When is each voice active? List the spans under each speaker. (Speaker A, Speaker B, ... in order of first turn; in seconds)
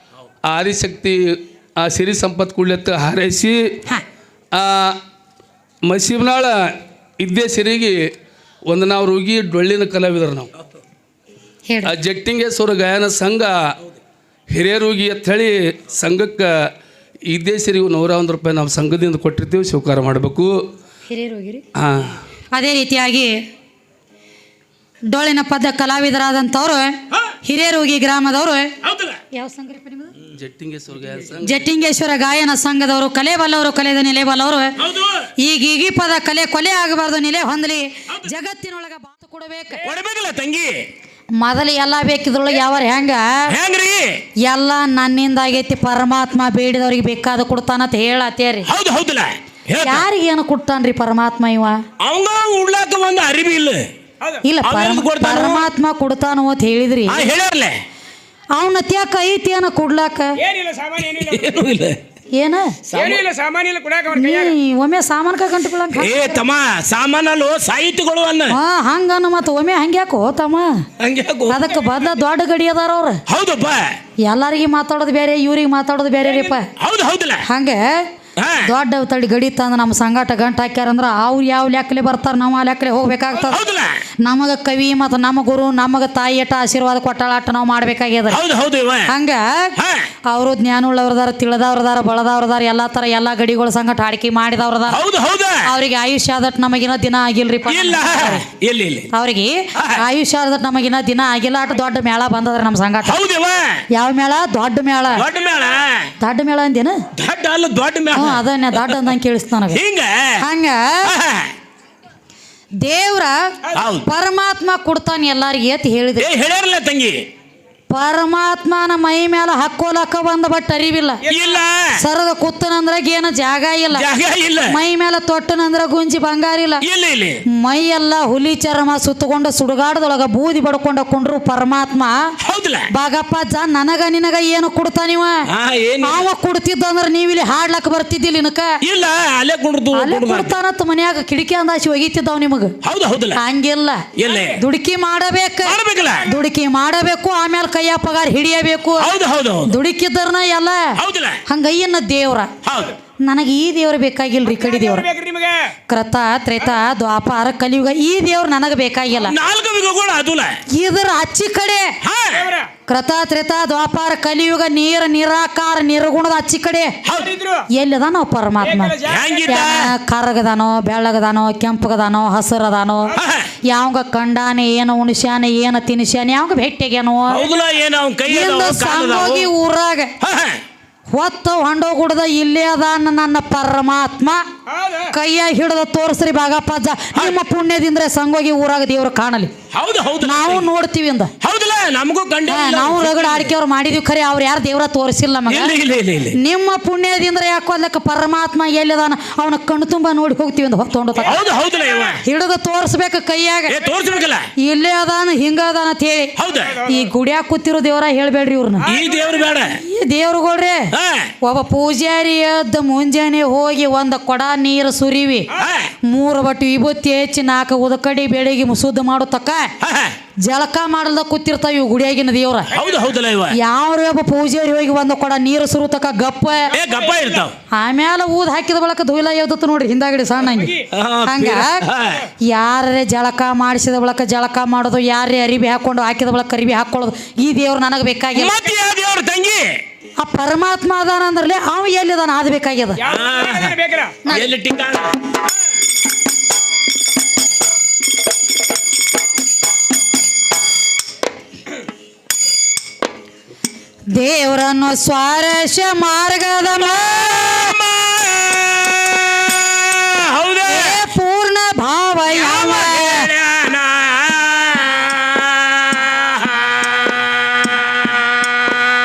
Speaker A: 0.5-3.8, 4.5-5.0, 5.8-8.0, 8.7-10.5, 11.8-13.6, 14.5-16.5, 17.3-20.5, 21.8-22.2, 30.3-31.7
Speaker B: 11.7-11.9, 21.1-21.6, 22.5-23.4, 25.1-28.7, 29.3-30.1, 31.4-34.7, 35.4-39.9, 41.4-43.5, 44.5-48.7, 49.8-51.8, 54.4-57.3, 58.5-60.4, 62.3-62.8, 64.1-66.4, 68.5-70.8, 71.5-73.2, 74.2-76.7, 77.5-78.1, 78.6-83.6, 84.2-88.4, 89.1-89.7, 90.2-95.0, 95.7-98.4, 99.1-103.2, 103.9-105.2, 106.2-107.0, 108.1-109.8, 110.4-111.1, 112.8-113.5, 114.0-116.3, 117.9-121.2, 122.0-124.0, 124.7-126.8, 127.5-132.2, 132.9-135.4, 136.0-138.7, 139.9-142.7, 143.3-144.0, 144.6-149.1, 149.7-150.9, 151.5-152.5, 153.2-155.1, 155.9-159.3, 160.7-161.9, 162.8-166.9, 167.7-169.0, 169.5-173.1, 173.7-177.4, 178.3-180.1, 181.1-184.4, 185.1-189.5, 190.2-191.3, 192.5-195.7, 196.4-201.4, 202.2-203.7, 204.6-206.3, 206.8-208.9, 209.8-210.9, 211.4-215.5, 216.0-219.7, 220.4-222.7, 223.5-226.7, 227.7-231.8, 232.4-238.5, 240.2-243.0, 254.1-257.8, 260.7-263.2
Speaker C: 28.8-29.2, 34.8-35.3, 39.8-40.8, 43.5-44.2, 48.7-50.0, 52.0-53.9, 54.6-55.7, 57.1-57.7, 61.0-62.0, 62.9-63.2, 65.9-68.5, 71.0-71.6, 73.3-74.0, 76.8-77.4, 78.4-78.7, 83.4-84.0, 88.3-89.1, 89.8-90.1, 94.9-95.7, 97.7-99.1, 99.8-100.0, 103.0-103.8, 105.2-106.1, 107.2-109.0, 109.7-110.4, 111.0-111.5, 113.7-114.0, 116.2-117.2, 121.3-122.0, 123.9-124.8, 126.8-127.4, 132.4-132.9, 135.5-136.2, 138.8-140.5, 142.8-143.4, 144.2-144.6, 145.6-146.3, 149.0-149.7, 151.0-151.4, 152.6-152.9, 159.2-160.5, 162.0-162.5, 167.0-167.4, 169.0-169.9, 173.2-173.5, 177.3-179.5, 180.2-180.6, 189.7-190.7, 191.4-193.5, 195.5-196.4, 201.2-202.2, 203.7-204.4, 206.4-206.8, 208.9-209.8, 210.9-211.3, 215.6-215.9, 219.8-220.1, 222.7-223.6, 226.7-227.5, 230.9-232.2, 238.3-239.8, 243.0-245.3, 257.2-261.0, 262.3-268.8
Speaker D: 60.4-61.4, 63.0-64.5, 154.6-155.7, 162.4-162.7, 168.7-169.5, 243.2-244.2